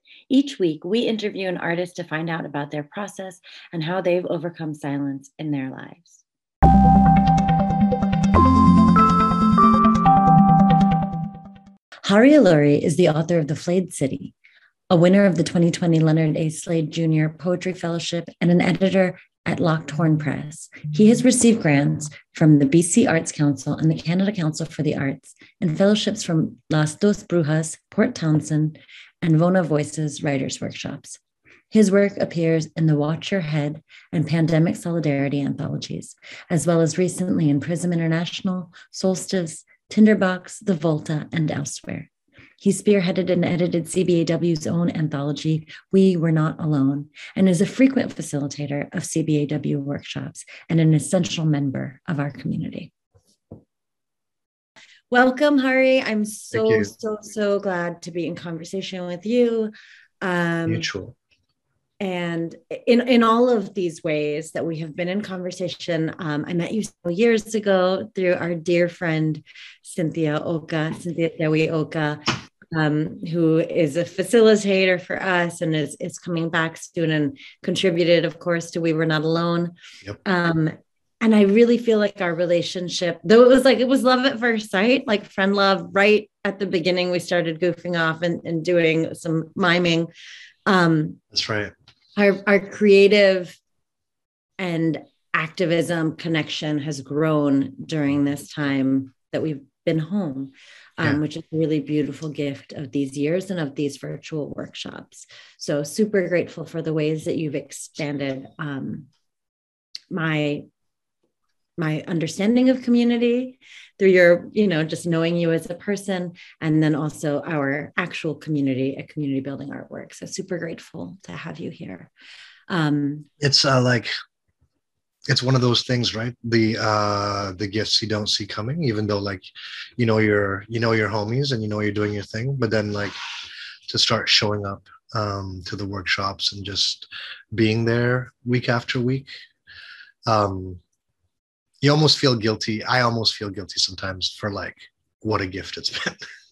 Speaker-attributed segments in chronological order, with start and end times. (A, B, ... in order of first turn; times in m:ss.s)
0:00.3-0:06.2 A
0:12.0-0:14.4 A
0:14.9-0:31.2 A
0:31.7-0:42.1 A
0:42.6-0:52.9 A
0:55.1-1:00.9 A
0:56.5-0:56.9 B
1:00.7-1:01.2 B
1:02.0-1:30.1 A
1:30.7-1:31.2 A
1:31.3-1:31.7 B
1:32.2-1:33.6 A
1:34.6-1:49.1 A
1:50.1-1:50.6 A
1:51.8-2:02.1 A
2:02.7-2:03.3 A
2:03.4-2:04.1 B
2:05.3-2:13.2 B
2:13.9-2:19.3 B
2:20.3-2:20.8 B
2:21.8-2:26.3 B